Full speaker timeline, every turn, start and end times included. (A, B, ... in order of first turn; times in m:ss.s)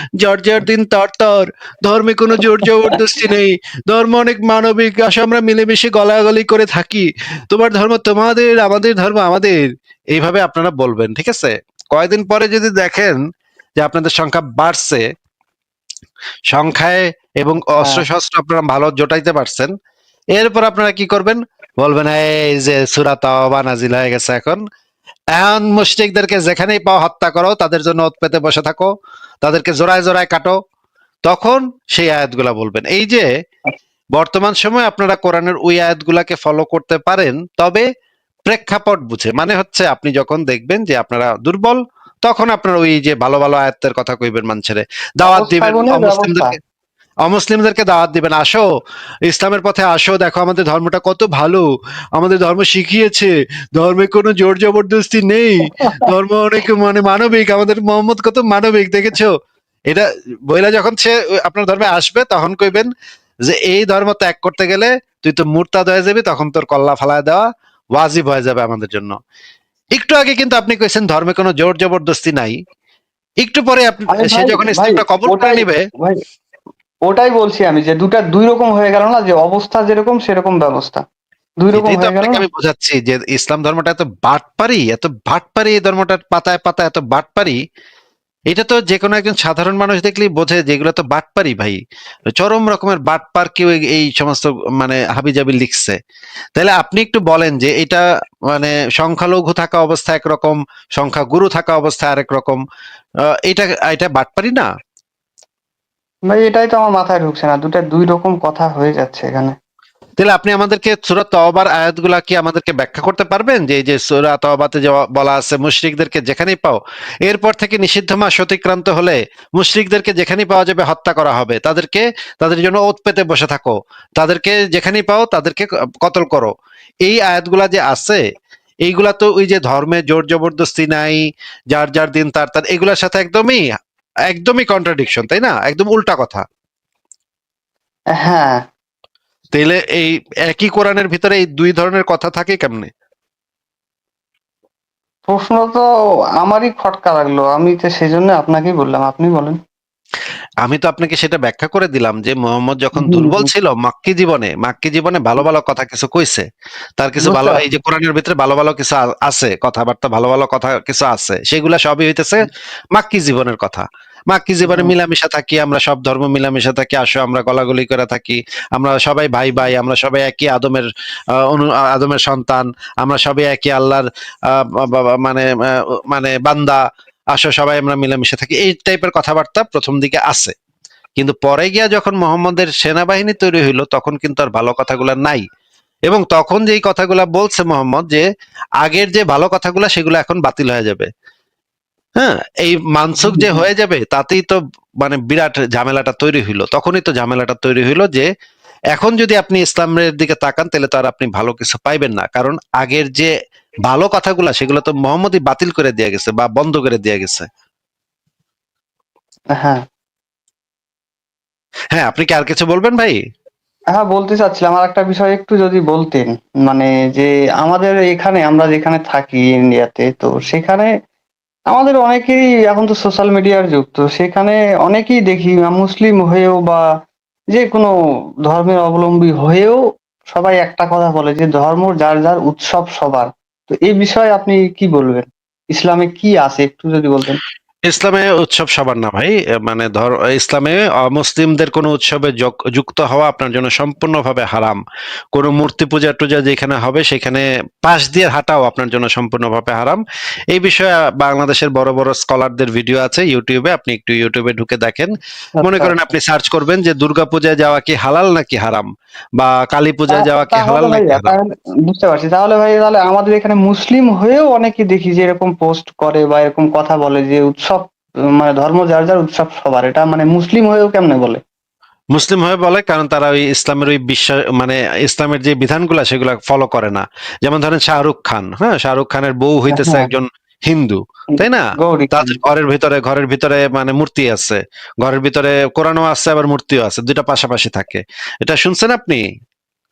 0:00.2-0:09.6 A
0:10.1-0:13.2 A
0:13.8-0:15.1 A
0:16.5-0:19.7 A
0:17.8-0:18.1 B
0:20.4-0:24.6 A
0:25.3-0:28.9 A
0:29.4-0:30.6 A
0:31.2-0:33.3 A
0:34.1-0:37.9 A
0:38.4-0:46.6 A
0:45.2-0:46.6 B
0:47.2-0:48.6 A
0:49.3-0:59.3 A
0:55.8-0:56.1 B
0:59.9-1:02.9 A
1:03.5-1:07.4 A
1:08.0-1:09.2 A
1:09.9-1:12.6 A
1:13.4-1:15.8 A
1:14.1-1:16.2 B
1:17.1-1:21.0 B
1:21.6-1:22.4 B
1:21.7-1:27.6 A
1:28.5-1:31.8 A
1:32.4-1:36.0 A
1:36.6-1:42.6 A
1:43.4-1:44.7 A
1:46.3-1:49.6 B
1:50.2-2:06.5 A
2:07.0-2:08.2 A
2:08.9-2:13.6 A
2:14.3-2:16.4 A
2:18.1-2:18.6 B
2:19.5-2:22.9 A
2:25.3-2:25.9 B
2:26.4-2:29.6 B
2:30.6-2:36.4 A
2:33.0-2:33.5 B
2:37.0-2:50.9 A
2:37.2-2:37.7 B
2:44.6-2:44.9 B
2:51.4-2:56.8 A
2:57.3-3:00.5 A
3:01.2-3:05.4 A
3:06.1-3:08.2 A
3:08.8-3:11.1 A
3:12.2-3:18.3 A
3:13.2-3:13.6 B
3:18.9-3:23.3 A
3:23.9-3:27.5 A
3:29.6-3:29.8 B
3:31.9-3:33.2 A
3:33.9-3:40.9 B
3:41.7-3:46.8 B
3:47.5-3:47.9 B
3:48.5-3:57.4 B
3:57.9-4:04.8 A
4:05.3-4:10.0 A
4:10.5-4:21.4 A
4:15.6-4:15.9 B
4:20.1-4:31.4 B
4:32.1-4:49.2 A
4:39.7-4:40.1 B
4:41.4-4:42.4 B